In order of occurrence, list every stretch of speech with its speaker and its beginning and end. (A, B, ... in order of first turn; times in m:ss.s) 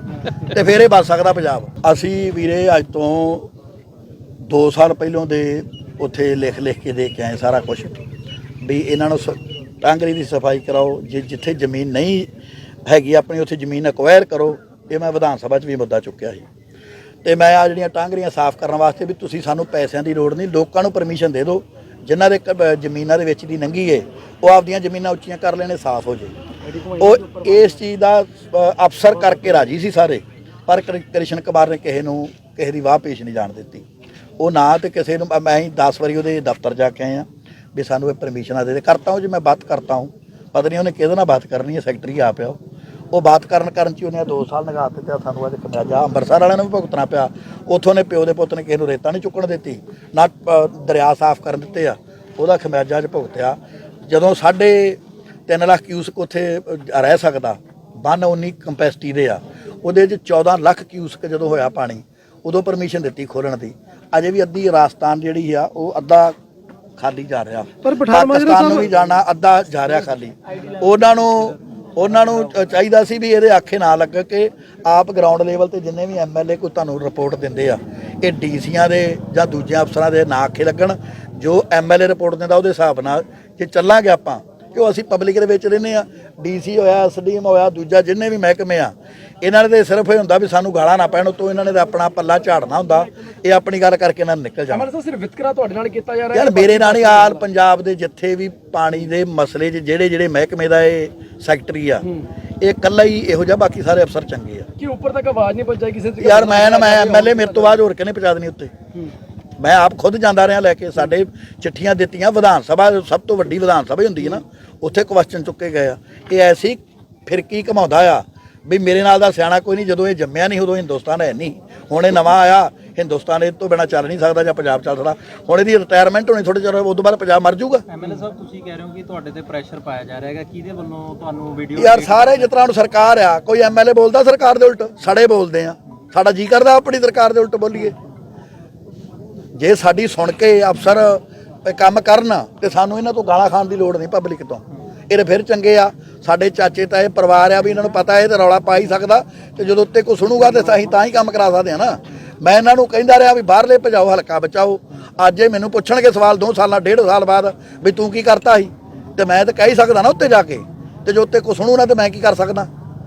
0:00.4-0:03.5 A
0:04.4-0:07.9 A
0:08.6-0:12.3 A
0:12.8-0:16.4 A
0:17.2-0:26.3 A
0:26.6-0:27.8 B
0:27.0-0:33.8 A
0:29.2-0:29.6 B
0:34.4-0:42.6 A
0:43.1-1:06.4 A
1:07.0-1:34.9 A
1:07.8-1:09.0 B
1:11.2-1:12.7 C
1:34.7-1:37.4 B
1:36.3-1:42.0 A
1:42.6-1:44.7 A
1:44.8-1:47.8 B
1:46.2-1:48.7 A
1:49.6-2:07.8 A
2:07.9-2:12.5 C
2:11.8-2:17.9 A
2:19.6-2:42.7 A